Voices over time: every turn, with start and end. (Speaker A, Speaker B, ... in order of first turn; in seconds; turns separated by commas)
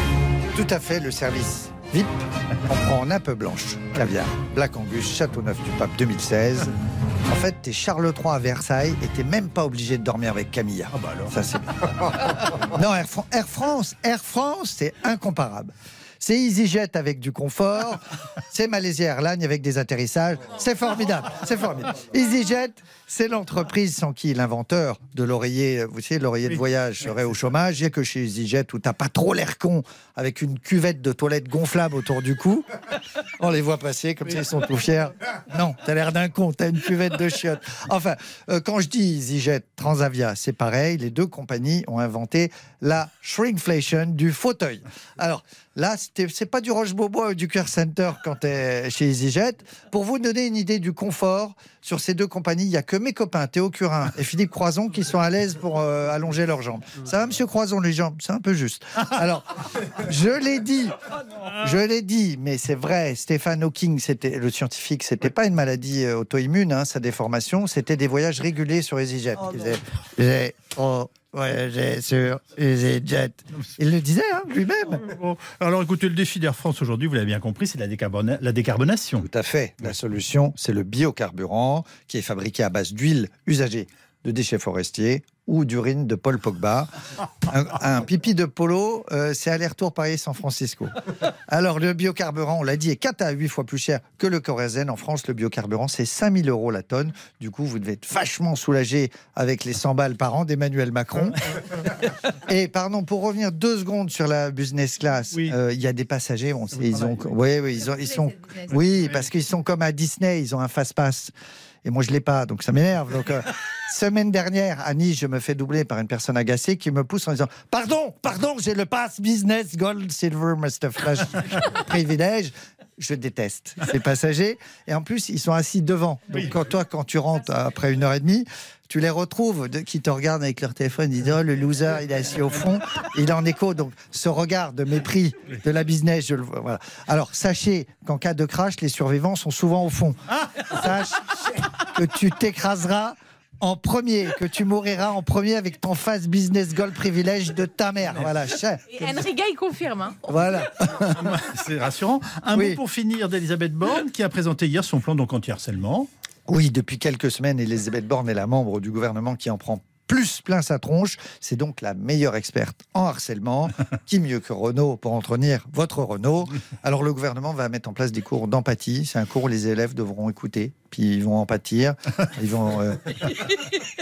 Speaker A: 0.5-32.7, Speaker B: 10.9-11.3, Speaker A: 33.4-75.1, Speaker B: 75.0-79.3, Speaker A: 79.2-86.9, Speaker A: 87.4-90.9, Speaker A: 91.5-101.4, Speaker A: 102.3-111.3, Speaker B: 106.7-107.3, Speaker C: 108.1-108.7, Speaker A: 111.8-149.1, Speaker C: 148.9-150.3, Speaker A: 150.3-151.4, Speaker B: 151.1-156.1, Speaker A: 152.5-152.8, Speaker A: 156.5-173.4